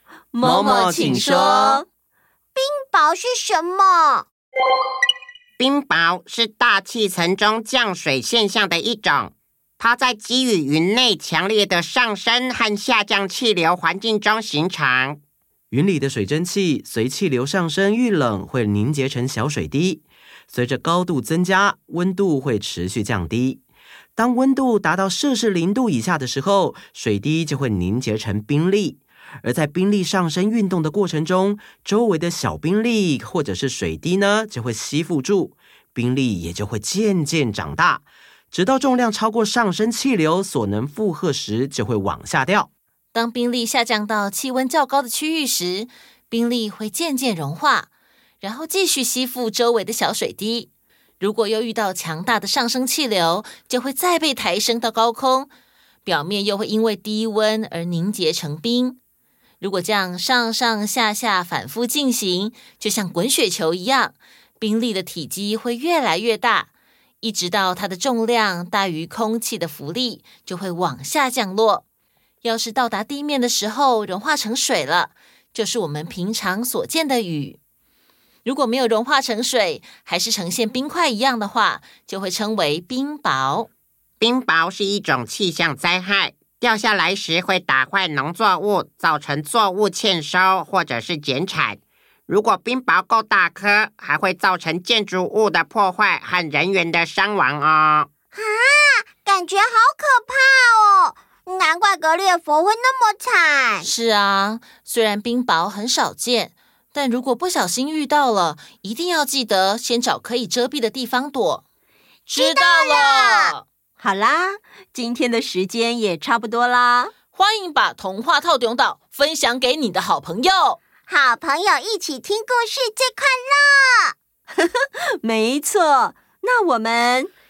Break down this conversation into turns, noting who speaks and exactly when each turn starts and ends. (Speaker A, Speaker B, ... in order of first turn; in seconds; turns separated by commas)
Speaker A: 0.3-1.9, Speaker B: 0.4-1.8, Speaker C: 2.5-4.2, Speaker D: 5.6-15.2, Speaker B: 15.7-23.6, Speaker B: 24.1-42.7, Speaker E: 43.1-47.9, Speaker E: 48.4-50.7, Speaker E: 51.2-55.5, Speaker E: 56.0-59.0, Speaker E: 59.6-66.7, Speaker E: 67.2-71.8, Speaker E: 72.4-77.6, Speaker E: 78.4-83.7, Speaker D: 84.2-98.1, Speaker C: 98.3-103.9, Speaker E: 103.8-111.6, Speaker E: 112.3-113.6, Speaker C: 112.3-113.5, Speaker A: 114.0-117.1, Speaker E: 117.3-120.8, Speaker C: 121.1-124.1, Speaker A: 124.6-127.3